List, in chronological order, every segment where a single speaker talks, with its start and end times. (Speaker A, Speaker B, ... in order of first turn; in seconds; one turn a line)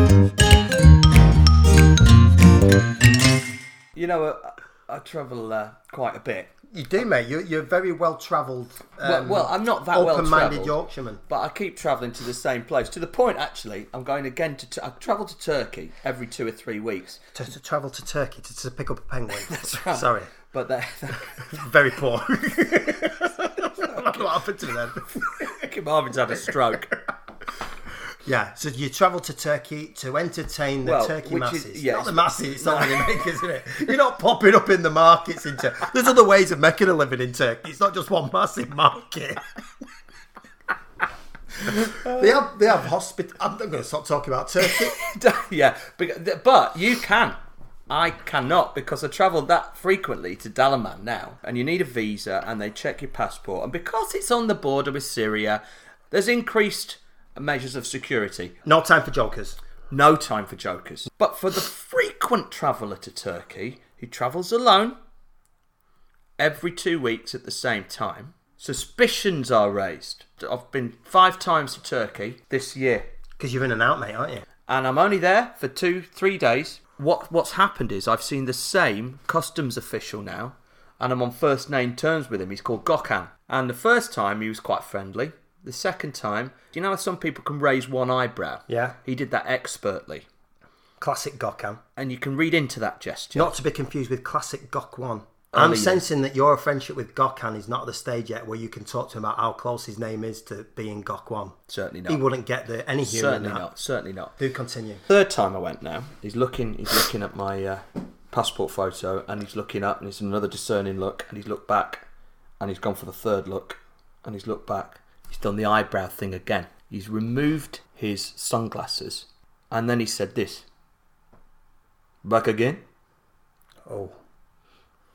Speaker A: 3.9-6.5
Speaker B: 6.7-11.2
Speaker A: 9.0-17.2
Speaker B: 17.3-20.3
Speaker A: 19.4-21.6
Speaker B: 21.4-25.1
Speaker A: 23.4-24.2
Speaker A: 25.3-26.9
Speaker B: 28.2-39.5
Speaker A: 30.8-33.2
Speaker B: 41.6-45.0
Speaker A: 41.7-42.2
Speaker A: 44.6-47.4
Speaker A: 47.9-58.6
Speaker B: 58.6-59.6
Speaker A: 59.9-65.0
Speaker A: 66.4-73.0
Speaker B: 73.4-74.4
Speaker A: 74.7-90.2
Speaker B: 88.7-89.0
Speaker B: 91.0-91.8
Speaker A: 92.0-93.5
Speaker B: 93.3-103.7
Speaker A: 95.5-96.0
Speaker A: 101.7-102.2
Speaker A: 103.0-104.3
Speaker B: 104.4-105.0
Speaker A: 105.1-112.0
Speaker A: 112.6-120.6
Speaker A: 122.2-122.8
Speaker B: 123.8-124.2